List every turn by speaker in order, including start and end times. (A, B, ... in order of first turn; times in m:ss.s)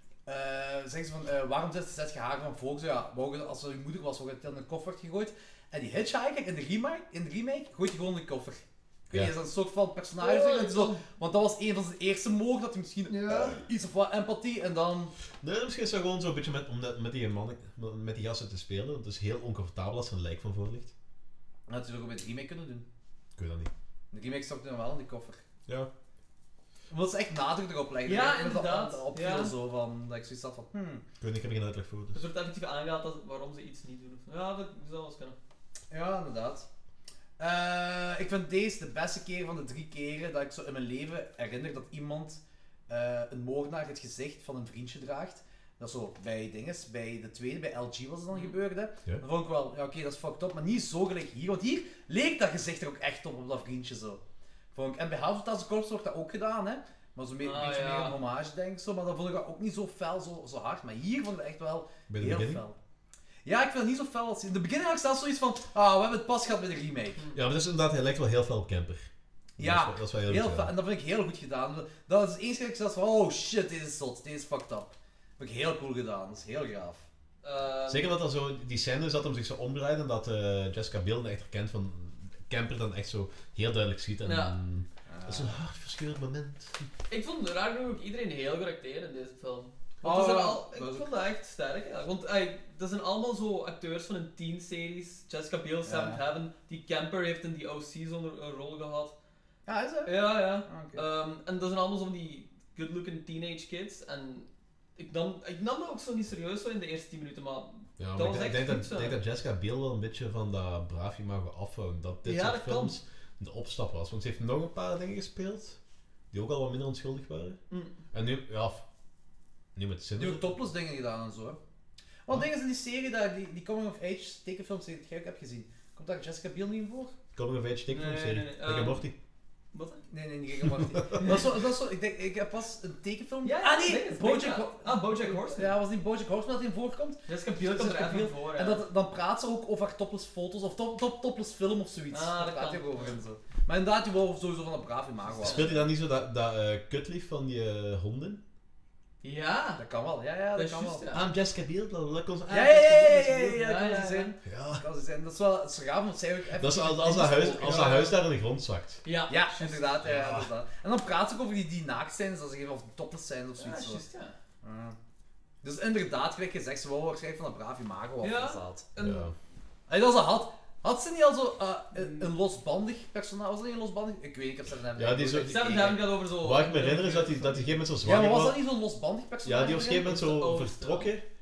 0:00.2-0:15.1 A
0:10.2-0:11.0 B
0:13.1-0:13.6 B
0:15.4-0:20.9 C
0:21.7-0:22.8 A
0:23.4-0:23.7 C
0:24.1-0:25.4 A
0:26.9-0:31.0 A
0:28.0-0:29.5 B
0:31.2-0:32.2 C
0:32.1-0:35.4 B
0:35.9-0:36.7 A
0:37.4-0:54.2 A
0:54.7-1:02.8 A
0:57.4-0:58.2 B
1:02.1-1:02.6 C
1:03.4-1:07.2 A
1:07.3-1:10.7 C
1:09.6-1:17.0 A
1:17.4-1:18.1 B
1:17.9-1:26.9 C
1:24.2-1:24.6 B
1:25.1-1:25.5 A
1:27.1-1:39.1 B
1:30.0-1:31.1 A
1:35.8-1:36.2 A
1:39.7-1:41.0 A
1:40.0-1:49.2 B
1:48.0-1:55.8 C
1:52.2-1:53.0 B
1:56.3-1:57.6 C
1:57.7-1:58.0 B
1:58.1-1:58.8 C
1:59.8-2:00.6 C
2:00.2-2:01.6 A
2:02.2-2:07.1 A
2:07.4-2:09.1 C
2:07.9-2:09.0 B
2:09.7-2:10.0 B
2:10.1-2:25.7 A
2:10.9-2:11.4 C
2:11.2-2:11.5 B
2:13.4-2:15.8 B
2:17.3-2:18.8 B
2:22.1-2:23.2 B
2:25.4-2:25.8 B
2:25.4-2:28.4 C
2:29.2-2:29.8 B
2:29.8-2:31.1 A
2:30.5-2:31.3 B
2:31.1-2:33.4 C
2:32.5-2:38.1 A
2:33.3-2:34.3 B
2:34.4-2:34.8 C
2:36.6-2:39.0 C
2:37.5-2:38.2 B
2:39.0-2:40.1 B
2:39.3-2:44.0 A
2:40.0-2:40.5 C
2:43.6-2:44.3 B
2:44.6-2:45.0 A
2:45.6-2:48.9 A
2:48.2-2:49.3 B
2:49.0-2:49.3 C
2:49.9-2:56.0 A
2:52.0-2:52.3 B
2:55.0-2:58.6 C
2:55.4-2:57.8 B
2:58.0-3:00.2 A
2:59.4-3:01.2 C
3:00.0-3:01.1 B